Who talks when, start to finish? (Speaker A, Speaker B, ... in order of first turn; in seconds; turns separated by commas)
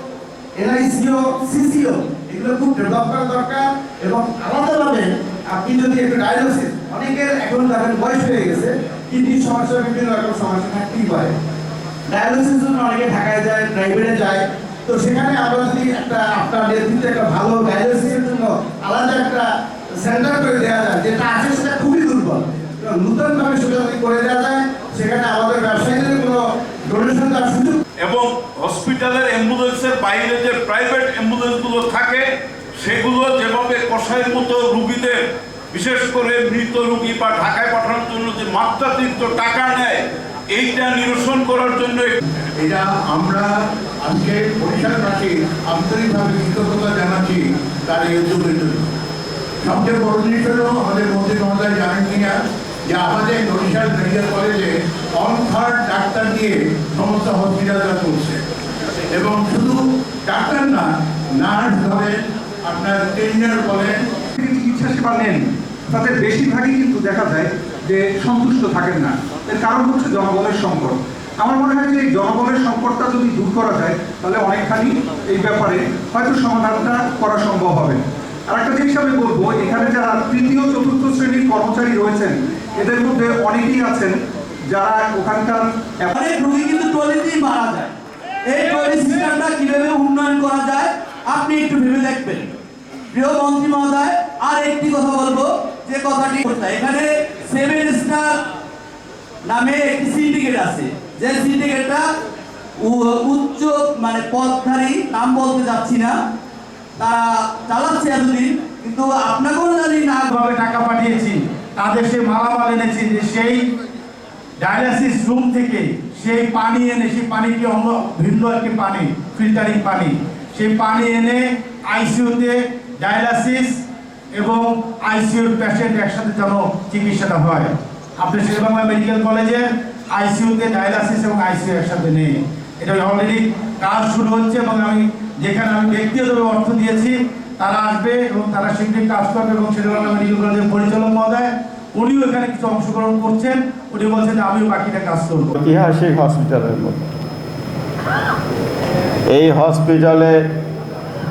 Speaker A: 0.6-11.3, Speaker A: 12.1-19.5, Speaker A: 20.0-27.8, Speaker B: 28.0-32.3, Speaker B: 32.8-42.1, Speaker C: 42.6-43.5, Speaker C: 44.0-48.9, Speaker C: 49.6-58.4, Speaker C: 59.1-64.0, Speaker D: 64.4-84.2, Speaker D: 84.7-86.1, Speaker E: 86.1-88.0, Speaker E: 88.5-92.5, Speaker E: 93.1-98.4, Speaker E: 99.5-102.0, Speaker E: 102.8-106.2, Speaker E: 107.0-110.3, Speaker F: 110.3-113.7, Speaker F: 114.6-123.8, Speaker F: 124.3-145.5, Speaker G: 145.6-147.0, Speaker G: 149.3-150.4